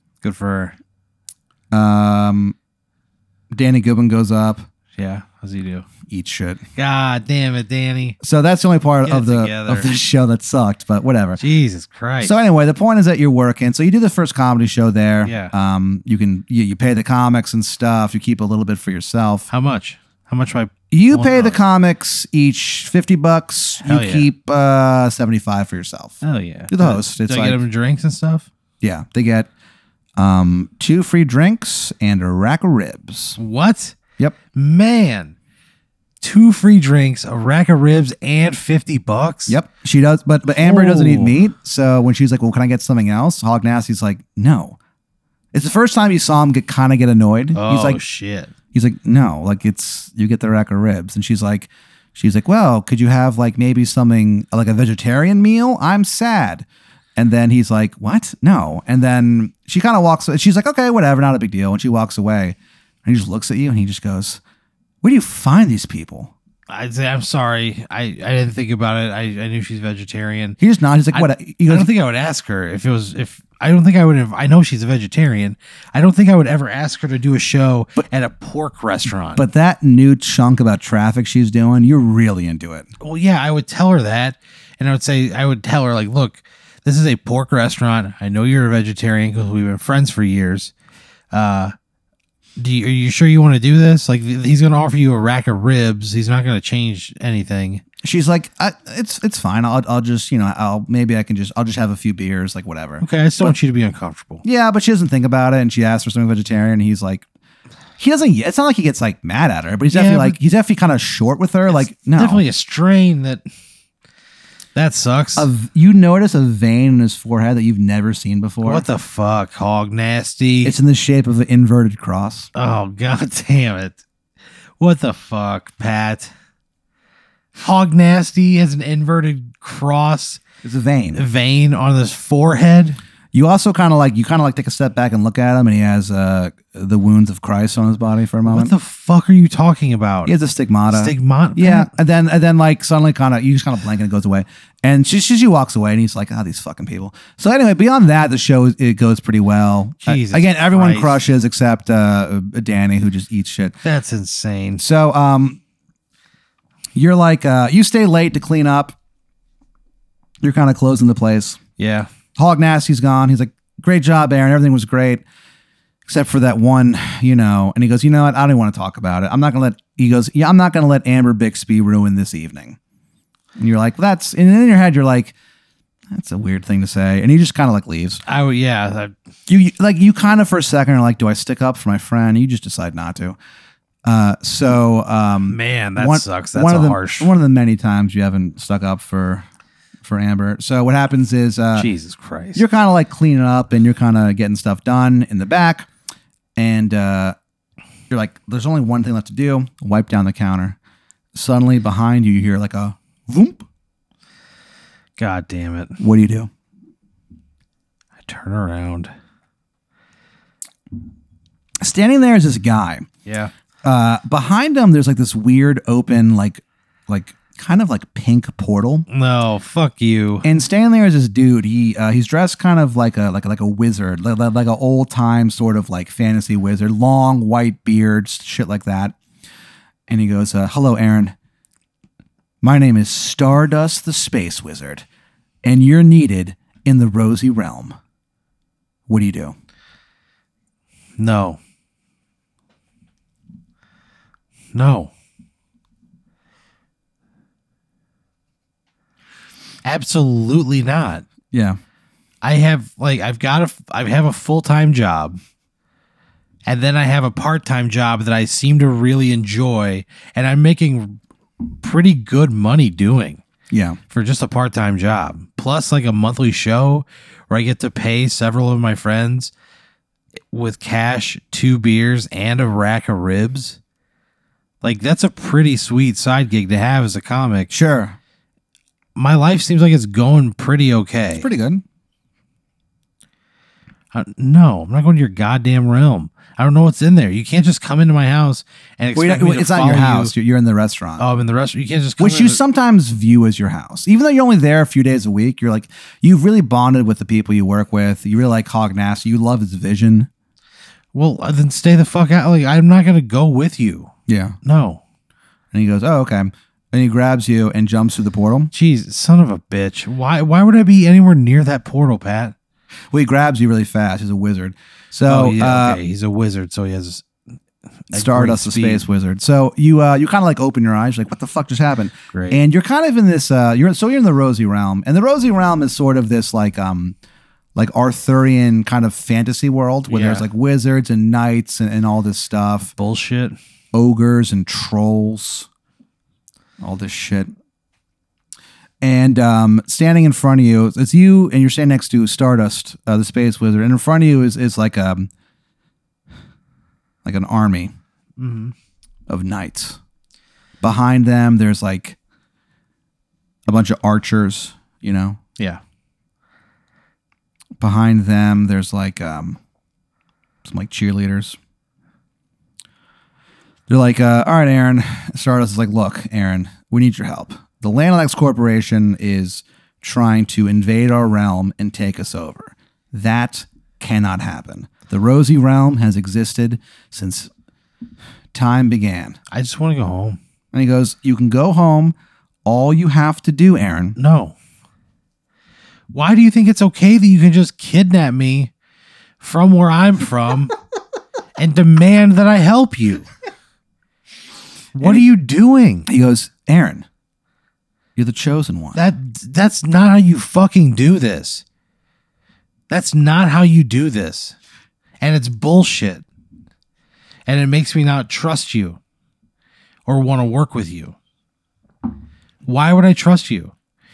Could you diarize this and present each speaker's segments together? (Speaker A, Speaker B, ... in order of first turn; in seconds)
Speaker A: 0.2-0.8, 5.0-5.9, 6.8-8.2, 9.0-9.9, 11.4-12.4, 15.2-15.5, 19.5-21.6, 23.8-24.3, 26.2-28.5, 33.4-34.0, 34.5-35.3, 36.2-39.5, 40.5-41.4, 47.5-48.5, 66.7-70.6, 71.1-79.4, 83.0-90.7, 91.3-91.7, 92.6-97.8, 103.0-104.4, 109.9-110.4, 111.7-113.4, 114.7-115.5, 118.6-120.7, 122.5-124.0, 124.8-126.3, 127.6-130.4, 131.1-133.0, 138.4-140.3, 140.9-141.9, 150.0-151.2, 153.8-154.8, 161.8-162.1, 178.2-179.1, 185.5-187.3, 191.8-192.6, 205.2-206.0, 208.2-209.1, 213.2-213.5, 219.1-220.4, 241.2-241.6, 244.7-245.1, 249.8-251.2, 252.4-255.4, 256.6-263.4, 264.1-269.5, 270.5-273.8, 274.8-277.7, 279.1-281.5, 284.1-290.3, 291.2-292.6, 301.1-304.1, 304.6-305.0, 308.7-312.5, 315.3-317.2, 318.1-319.1, 322.3-322.6, 330.1-330.5, 333.0-333.6, 348.4-348.7, 379.5-380.4, 384.2-384.5, 386.1-388.7, 389.4-390.7, 391.6-393.3, 394.9-396.1, 398.9-401.6, 402.9-404.5, 405.2-406.2, 407.4-409.0, 410.1-411.1, 412.6-413.7
Speaker B: 1.7-2.5, 3.5-4.7, 6.1-6.6, 8.2-11.4, 12.2-19.5, 20.9-27.6, 28.8-29.5, 30.2-33.4, 39.5-44.8, 45.5-48.0, 48.7-64.4, 65.0-66.3, 70.6-71.9, 79.3-82.9, 98.0-103.5, 104.4-107.2, 108.0-112.4, 115.3-118.8, 120.6-122.5, 130.6-131.2, 133.3-138.7, 140.2-153.8, 154.8-155.6, 156.9-158.9, 160.4-161.6, 162.3-165.2, 166.1-172.8, 173.6-175.3, 176.1-178.2, 179.5-183.4, 184.0-189.4, 190.0-191.9, 192.5-195.9, 196.6-197.3, 198.1-200.8, 201.3-203.7, 206.0-206.5, 211.8-213.1, 213.8-219.1, 220.4-229.1, 230.1-231.3, 232.6-235.1, 235.6-238.0, 239.1-239.6, 251.5-251.8, 263.7-264.0, 277.7-278.2, 281.4-281.8, 289.1-291.2, 292.2-300.3, 304.3-304.6, 305.7-308.7, 313.1-316.0, 318.1-327.1, 327.8-332.9, 333.9-335.7, 336.8-337.5, 339.0-345.3, 347.2-347.9, 349.3-350.0, 350.8-352.2, 353.6-355.4, 357.8-359.6, 360.6-361.6, 363.9-377.5, 378.5-379.4, 380.7-384.2, 396.1-397.1, 398.1-399.0